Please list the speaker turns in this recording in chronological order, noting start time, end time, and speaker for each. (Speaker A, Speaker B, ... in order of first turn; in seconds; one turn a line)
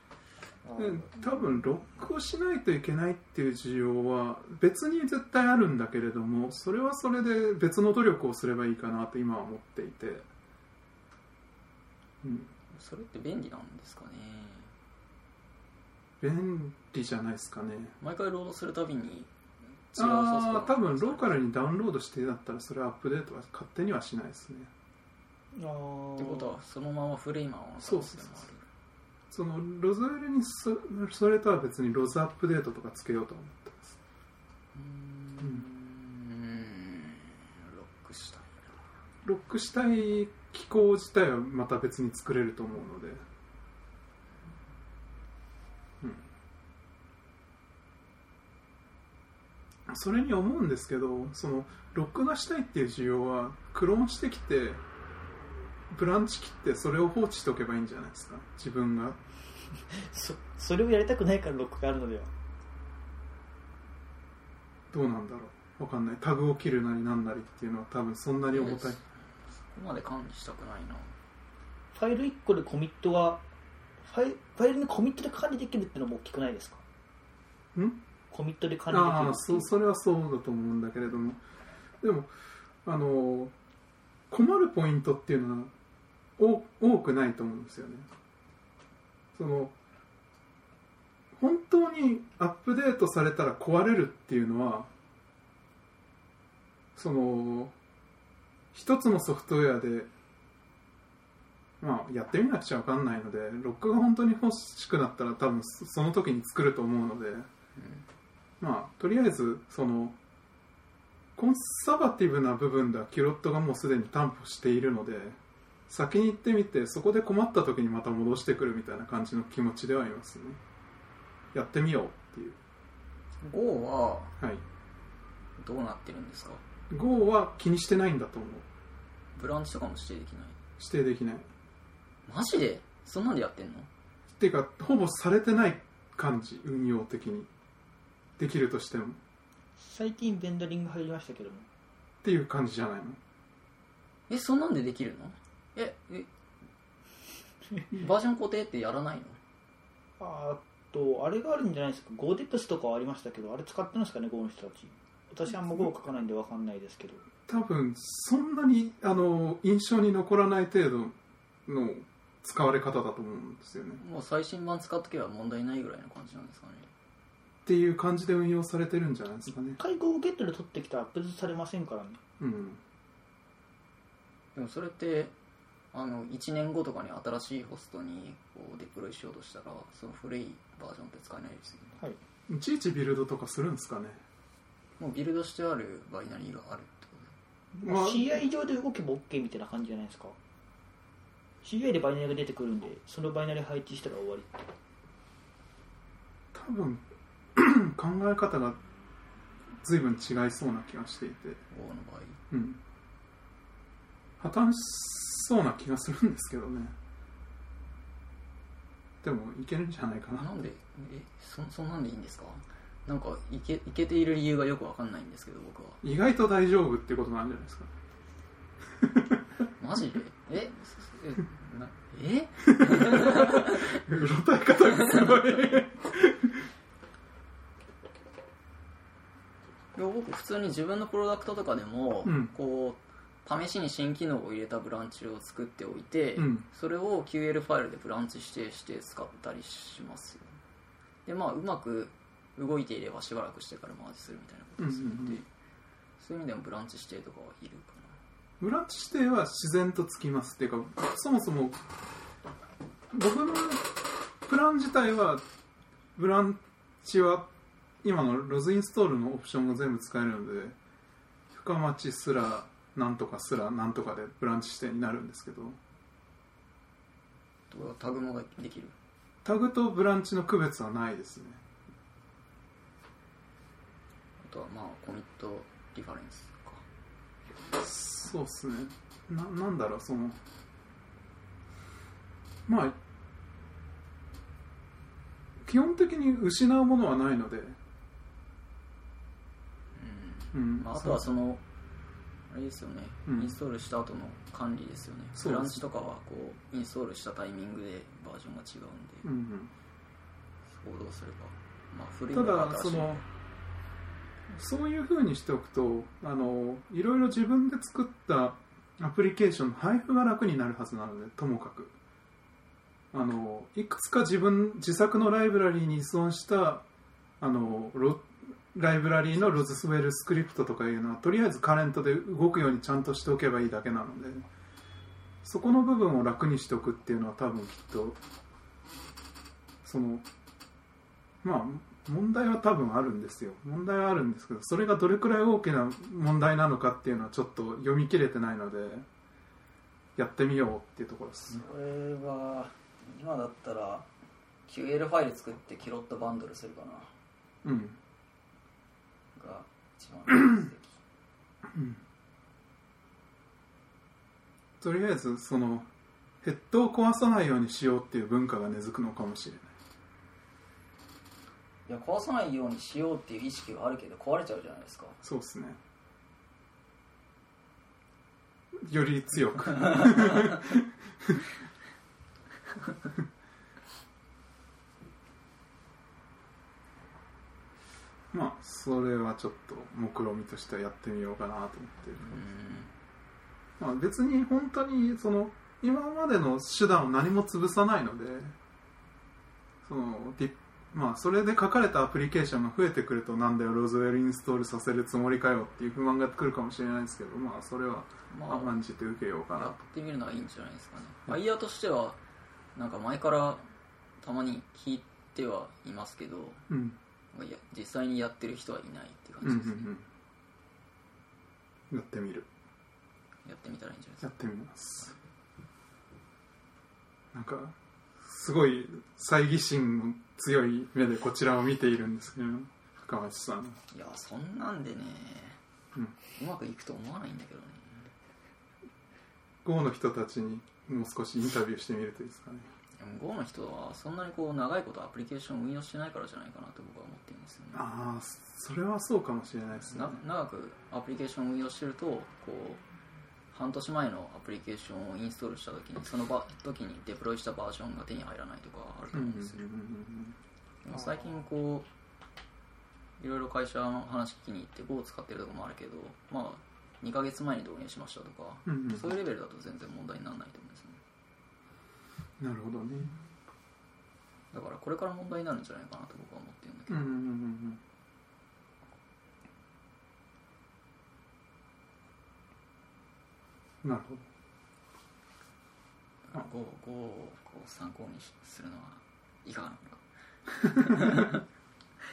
Speaker A: 0.7-1.4
Speaker B: 0.8-10.3
Speaker B: 12.2-12.5
Speaker C: 12.7-14.7
Speaker B: 16.2-17.9
Speaker C: 18.0-19.3
Speaker C: 19.9-21.3
Speaker B: 19.9-24.7
Speaker A: 25.6-26.6
Speaker C: 26.2-28.6
Speaker B: 27.8-28.4
Speaker B: 29.3-34.0
Speaker C: 34.7-38.7
Speaker B: 39.2-43.2
Speaker B: 46.0-46.3
Speaker B: 49.9-54.8
Speaker B: 55.9-59.2
Speaker A: 59.9-62.3
Speaker B: 64.9-69.0
Speaker C: 68.5-71.1
Speaker A: 71.9-73.4
Speaker A: 74.0-76.8
Speaker B: 77.8-78.0
Speaker A: 78.3-79.7
Speaker B: 78.9-81.4
Speaker B: 82.0-82.3
Speaker B: 82.8-83.5
Speaker B: 84.3-85.7
Speaker B: 86.4-88.1
Speaker B: 89.3-89.8
Speaker B: 91.4-94.9
Speaker B: 97.0-97.8
Speaker B: 98.7-100.1
Speaker B: 101.8-107.5
Speaker C: 107.8-108.0
Speaker B: 108.6-110.2
Speaker B: 111.4-120.6
Speaker B: 121.5-122.6
Speaker C: 123.4-124.4
Speaker B: 124.4-124.6
Speaker C: 125.6-126.6
Speaker B: 126.9-128.7
Speaker C: 129.3-130.6
Speaker B: 130.8-131.5
Speaker C: 132.3-133.9
Speaker B: 134.3-137.5
Speaker B: 138.4-139.2
Speaker A: 139.8-141.7
Speaker B: 142.2-143.2
Speaker C: 144.3-146.3
Speaker C: 147.9-149.4
Speaker A: 150.2-157.3
Speaker B: 157.5-161.2
Speaker B: 161.7-164.0
Speaker C: 164.0-166.9
Speaker B: 167.7-169.8
Speaker A: 169.8-172.2
Speaker B: 172.4-172.8
Speaker C: 174.6-175.3
Speaker C: 175.9-182.0
Speaker B: 182.5-184.2
Speaker C: 185.0-187.3
Speaker B: 187.8-188.3
Speaker A: 187.8-190.4
Speaker A: 191.6-194.7
Speaker B: 196.5-198.8
Speaker B: 199.8-201.6
Speaker C: 201.7-202.4
Speaker B: 202.5-202.8
Speaker B: 204.4-206.9
Speaker B: 209.2-210.5
Speaker C: 210.4-216.0
Speaker B: 216.0-217.9
Speaker B: 219.0-219.4
Speaker C: 219.8-223.9
Speaker B: 222.8-226.6
Speaker C: 229.9-240.4
Speaker B: 232.2-232.5
Speaker B: 236.4-236.7
Speaker C: 241.3-245.5
Speaker B: 244.8-245.4
Speaker C: 246.2-248.2
Speaker B: 248.6-251.8
Speaker B: 253.1-253.9
Speaker B: 254.4-255.4
Speaker B: 256.1-257.5
Speaker B: 258.0-260.8
Speaker B: 261.5-265.8
Speaker C: 267.7-268.9
Speaker B: 269.4-271.6
Speaker C: 274.4-276.8
Speaker B: 277.8-280.4
Speaker B: 282.7-283.0
Speaker B: 285.6-287.8
Speaker C: 289.9-291.6
Speaker B: 290.5-291.2
Speaker C: 292.5-299.3
Speaker B: 293.3-293.6
Speaker B: 295.4-295.8
Speaker B: 299.2-299.7
Speaker C: 300.7-303.2
Speaker B: 302.3-303.2
Speaker B: 304.5-311.9
Speaker B: 313.1-316.9
Speaker B: 317.4-324.5
Speaker C: 319.3-319.7
Speaker B: 325.4-328.2
Speaker B: 329.8-330.3
Speaker B: 331.4-339.1
Speaker B: 340.2-341.6
Speaker C: 341.5-344.1
Speaker C: 344.7-347.1
Speaker B: 347.6-348.0
Speaker C: 349.4-351.0
Speaker B: 351.7-352.0
Speaker B: 354.8-355.9
Speaker B: 356.4-359.7
Speaker C: 361.9-365.2
Speaker B: 365.2-365.8
Speaker B: 368.8-371.5
Speaker B: 378.3-382.5
Speaker C: 382.3-382.9
Speaker B: 383.8-388.6
Speaker B: 389.8-399.8
Speaker C: 398.3-398.8
Speaker C: 399.5-402.2
Speaker C: 402.8-403.6
Speaker C: 404.2-406.6
Speaker B: 406.7-407.0
Speaker C: 407.3-409.9
Speaker B: 409.4-410.1
Speaker B: 411.9-412.5
Speaker C: 413.4-414.3
Speaker B: 414.2-415.2
Speaker B: 417.3-423.8
Speaker C: 423.9-425.6
Speaker C: 426.4-428.1
Speaker B: 429.6-432.7
Speaker C: 433.0-437.8
Speaker B: 437.7-440.2
Speaker C: 439.8-442.8
Speaker C: 443.5-449.7
Speaker B: 449.1-450.4
Speaker C: 450.8-451.9
Speaker C: 453.2-461.0
Speaker B: 458.7-459.1
Speaker B: 462.4-463.1
Speaker C: 464.5-467.2
Speaker B: 466.9-467.8
Speaker B: 473.8-474.3
Speaker C: 476.3-480.0
Speaker C: 480.6-481.4
Speaker B: 480.9-481.3